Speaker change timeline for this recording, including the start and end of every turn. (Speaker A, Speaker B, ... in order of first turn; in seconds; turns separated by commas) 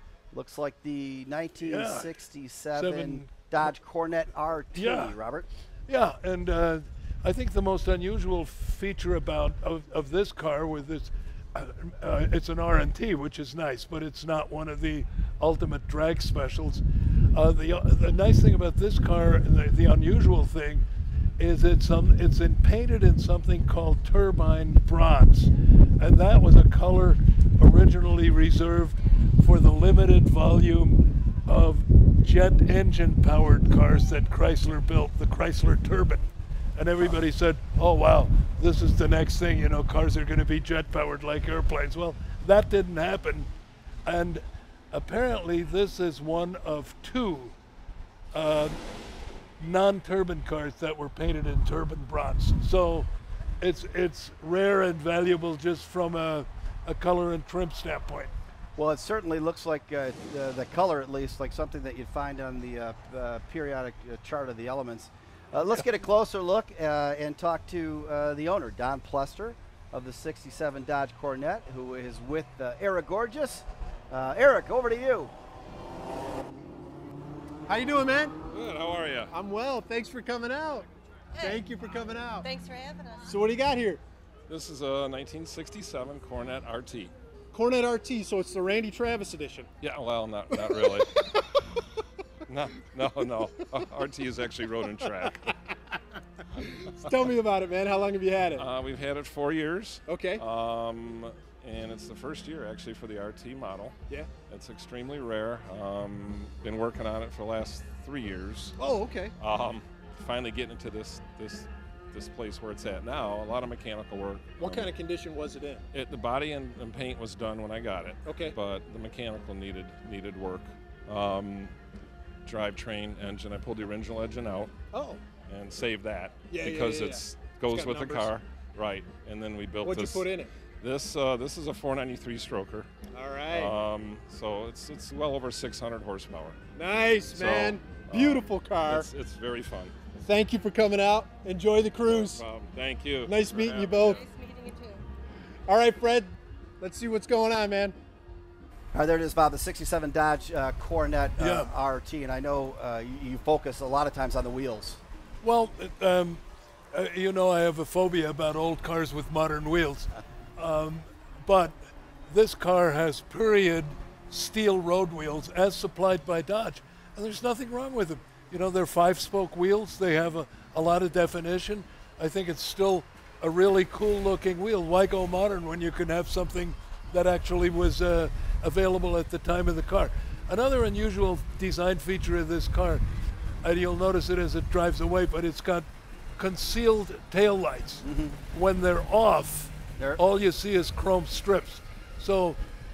Speaker A: 0.3-5.5, Speaker B: 1.6-2.1, Speaker B: 2.7-3.7, Speaker B: 4.7-5.2, Speaker B: 5.9-20.8, Speaker B: 21.4-36.2, Speaker B: 36.8-43.5, Speaker B: 44.0-47.5, Speaker B: 48.3-48.8, Speaker B: 49.6-53.1, Speaker B: 53.6-58.3, Speaker A: 58.8-75.3, Speaker C: 77.7-78.3, Speaker D: 78.5-79.3, Speaker C: 79.3-80.9, Speaker E: 81.3-81.6, Speaker C: 81.4-82.5, Speaker E: 82.4-83.3, Speaker C: 83.2-84.0, Speaker D: 84.5-87.1, Speaker C: 87.5-89.7, Speaker D: 89.8-91.2, Speaker C: 90.7-91.0, Speaker D: 92.5-95.6, Speaker C: 96.5-98.7, Speaker D: 98.5-104.0, Speaker C: 100.1-100.4, Speaker D: 104.5-108.8, Speaker C: 108.8-109.3, Speaker D: 109.4-114.9, Speaker C: 114.6-115.8, Speaker D: 115.9-121.7, Speaker C: 118.2-118.5, Speaker D: 122.4-124.7, Speaker C: 124.9-125.2, Speaker D: 125.5-132.9, Speaker C: 126.5-128.3, Speaker C: 129.8-130.5, Speaker C: 133.1-133.7, Speaker D: 133.5-136.6, Speaker C: 136.7-139.1, Speaker D: 137.3-139.9, Speaker C: 140.2-142.4, Speaker D: 142.0-144.2, Speaker C: 143.2-144.2, Speaker E: 144.0-145.0, Speaker C: 145.7-147.9, Speaker A: 148.9-155.0, Speaker B: 151.4-151.7, Speaker B: 155.4-161.8, Speaker B: 162.3-183.0, Speaker B: 183.6-192.6, Speaker A: 188.0-188.4